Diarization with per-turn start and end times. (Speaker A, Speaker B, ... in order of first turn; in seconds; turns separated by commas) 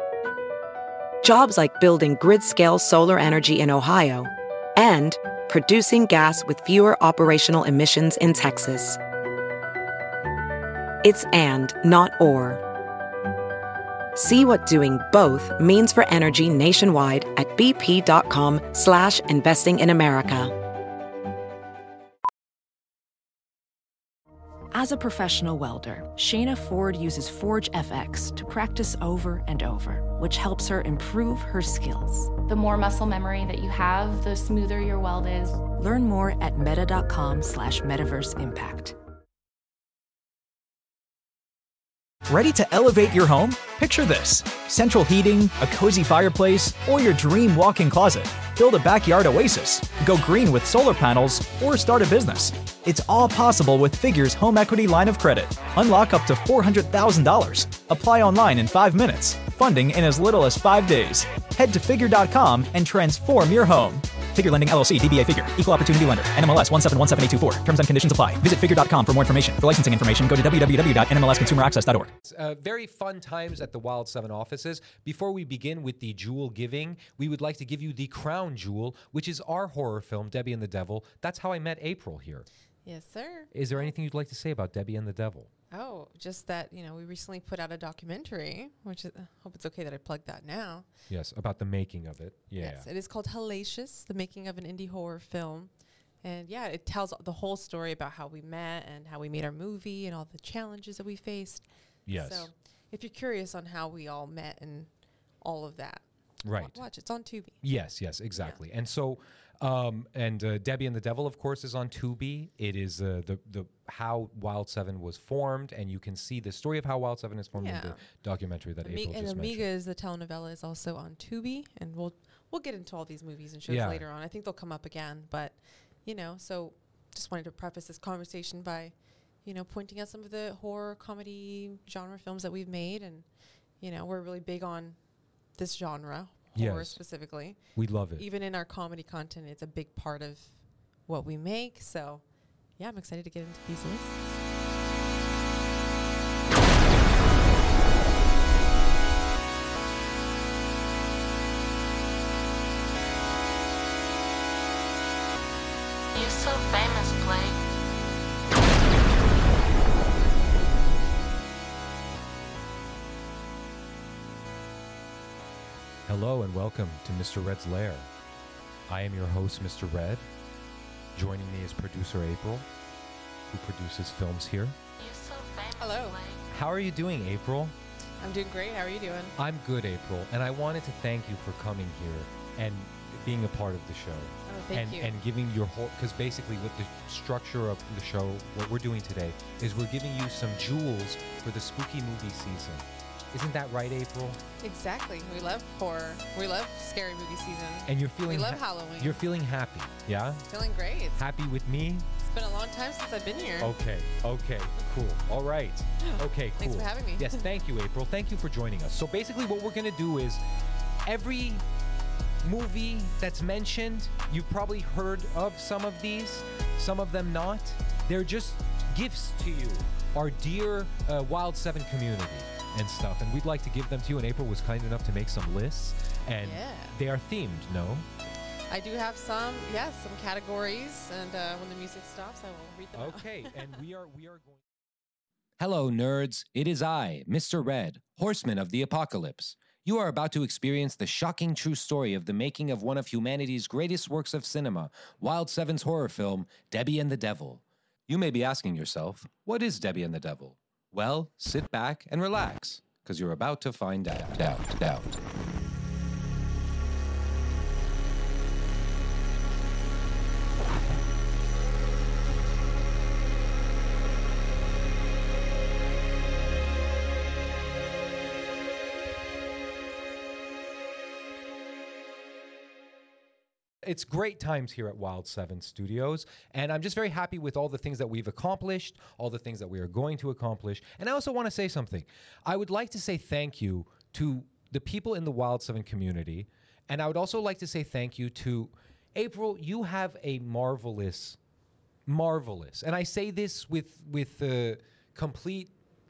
Speaker A: 1.2-9.0, Speaker A: 11.0-12.6, Speaker A: 14.2-20.5, Speaker B: 24.7-32.3, Speaker C: 32.5-35.6, Speaker B: 35.7-39.0, Speaker D: 42.3-72.1, Speaker E: 72.2-82.5, Speaker F: 82.8-83.9, Speaker E: 83.5-85.5, Speaker F: 85.7-90.8, Speaker E: 91.1-92.9, Speaker F: 92.6-95.7, Speaker F: 96.2-104.9, Speaker E: 102.0-102.5, Speaker F: 105.4-107.6, Speaker E: 106.4-106.8, Speaker E: 107.6-119.7, Speaker F: 117.5-118.0, Speaker F: 118.8-128.9, Speaker E: 123.7-124.0, Speaker F: 129.4-133.2, Speaker F: 133.8-135.0, Speaker F: 135.6-137.6, Speaker E: 136.5-137.0, Speaker E: 137.7-138.2, Speaker F: 138.2-140.5, Speaker F: 141.1-142.2, Speaker F: 142.8-144.2, Speaker G: 156.1-157.6, Speaker E: 166.1-168.1, Speaker E: 168.9-170.3, Speaker E: 171.1-172.7, Speaker E: 173.5-174.8, Speaker C: 175.0-175.6, Speaker G: 175.0-175.5, Speaker F: 175.7-176.3, Speaker E: 176.5-177.7, Speaker F: 178.2-179.3, Speaker E: 179.4-194.4, Speaker F: 184.5-185.1, Speaker F: 194.6-199.2, Speaker E: 197.8-200.4, Speaker F: 200.5-201.2, Speaker E: 201.2-202.1, Speaker F: 202.2-203.7, Speaker E: 203.6-210.4, Speaker F: 206.0-207.5, Speaker E: 211.0-211.7, Speaker E: 212.4-228.1, Speaker F: 226.4-227.0, Speaker F: 228.7-233.6, Speaker E: 232.9-234.6, Speaker E: 235.6-255.2, Speaker E: 273.8-291.4, Speaker E: 292.1-295.7